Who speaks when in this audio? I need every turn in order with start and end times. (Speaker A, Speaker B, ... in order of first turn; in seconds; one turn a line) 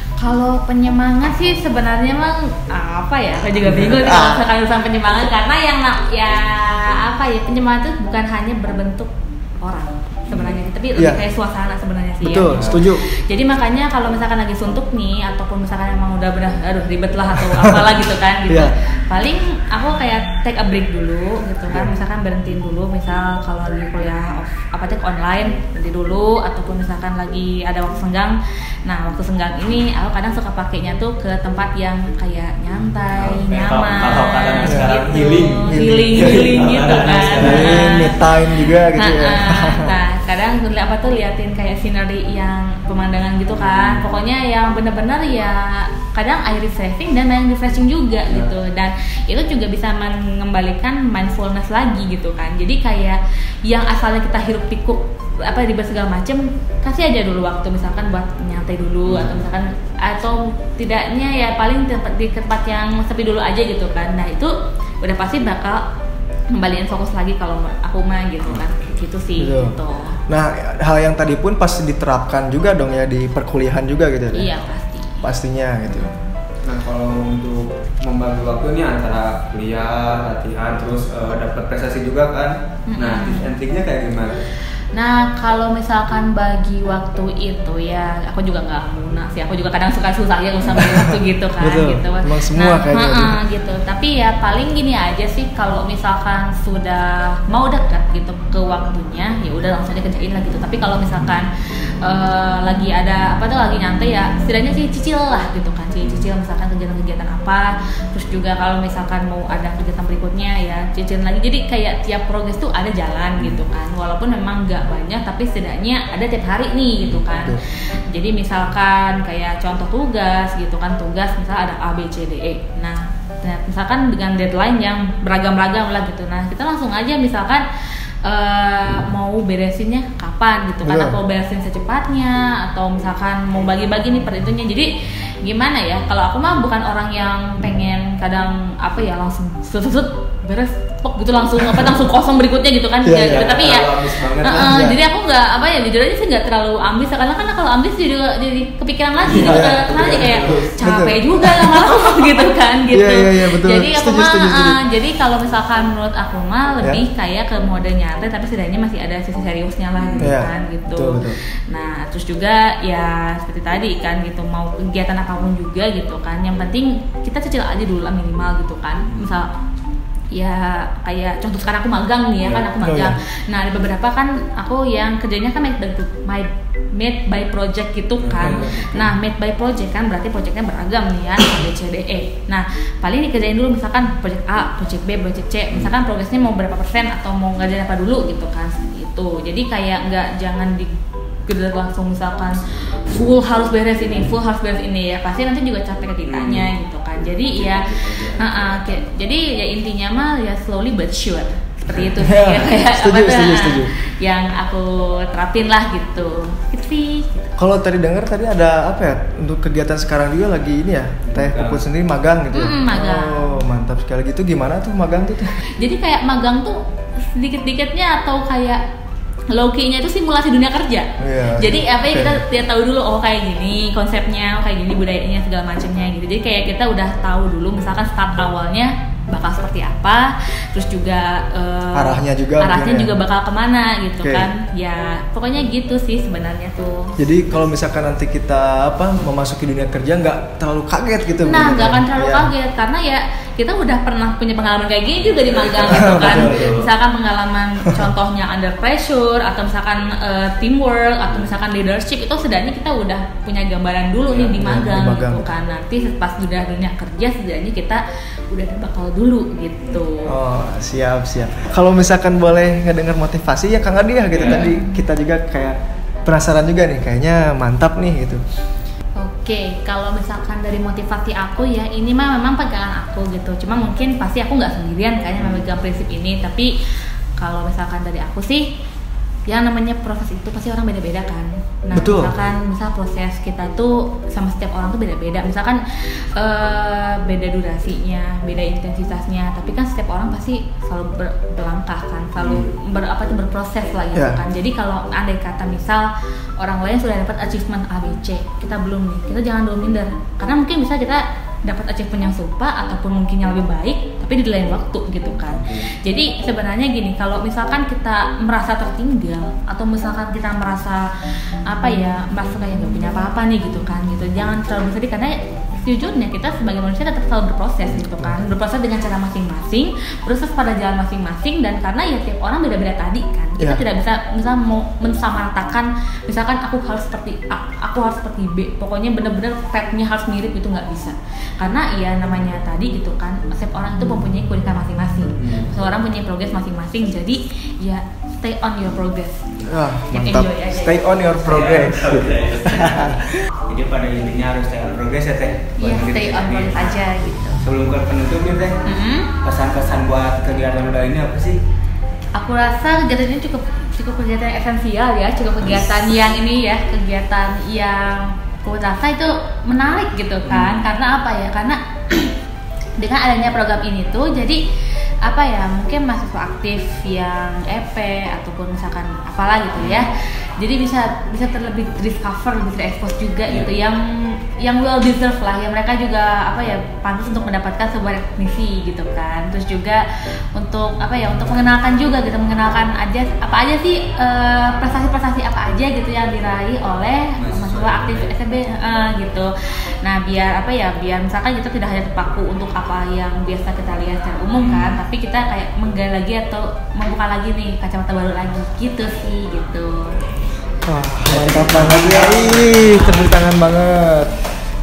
Speaker A: 0.2-65.8
Speaker B: 4.0-4.5
Speaker C: 10.3-10.6
Speaker B: 11.0-11.2
Speaker B: 12.2-13.0
Speaker C: 12.5-12.8
Speaker C: 33.2-37.9
Speaker B: 35.6-36.8
Speaker B: 37.4-40.0
Speaker C: 43.7-44.0
Speaker C: 59.1-59.4
Speaker A: 66.5-70.2
Speaker B: 69.4-74.5
Speaker A: 74.3-75.3
Speaker B: 75.2-76.1
Speaker A: 75.9-76.3
Speaker C: 76.6-84.4
Speaker A: 82.9-83.5
Speaker A: 84.9-101.5
Speaker B: 90.8-91.1
Speaker B: 91.6-93.4
Speaker A: 102.0-127.6
Speaker C: 106.0-106.3
Speaker C: 113.4-113.6
Speaker B: 117.3-117.6
Speaker A: 128.2-169.5
Speaker B: 130.8-131.2
Speaker B: 143.0-143.5
Speaker C: 143.3-144.8
Speaker B: 144.5-145.0
Speaker C: 149.2-150.7
Speaker B: 149.5-149.9
Speaker B: 150.8-151.9
Speaker B: 152.9-154.8
Speaker C: 160.0-160.3
Speaker B: 160.2-161.4
Speaker A: 170.3-207.6
Speaker B: 172.8-173.1
Speaker C: 178.2-178.8
Speaker B: 178.4-179.1
Speaker C: 196.3-196.7
Speaker C: 197.5-198.8
Speaker B: 202.2-203.9
Speaker B: 207.6-215.6
Speaker C: 211.2-211.8
Speaker A: 212.5-213.6
Speaker A: 215.8-218.8
Speaker A: 219.5-237.2
Speaker B: 221.2-222.4
Speaker B: 231.9-233.1
Speaker B: 234.2-234.5
Speaker B: 237.2-242.5
Speaker A: 241.4-260.4
Speaker C: 245.3-246.8
Speaker B: 245.9-246.8
Speaker B: 254.6-255.4
Speaker B: 260.3-268.4
Speaker C: 264.3-264.7
Speaker A: 264.4-265.0
Speaker A: 269.2-276.7
Speaker A: 277.4-278.7
Speaker A: 279.5-311.1
Speaker B: 281.9-282.3
Speaker C: 292.4-292.7
Speaker C: 305.5-305.9
Speaker A: 311.7-339.5
Speaker C: 335.4-335.7
Speaker B: 339.7-343.3
Speaker A: 340.1-341.2
Speaker C: 341.4-347.0
Speaker A: 345.8-347.6
Speaker C: 347.6-348.8
Speaker A: 348.9-349.3
Speaker C: 349.4-351.6
Speaker A: 352.4-362.4
Speaker C: 360.5-360.8
Speaker A: 363.0-364.6
Speaker A: 365.2-400.1
Speaker C: 369.8-370.1
Speaker C: 387.4-388.3
Speaker C: 394.6-394.9
Speaker B: 400.9-404.3
Speaker C: 401.3-403.1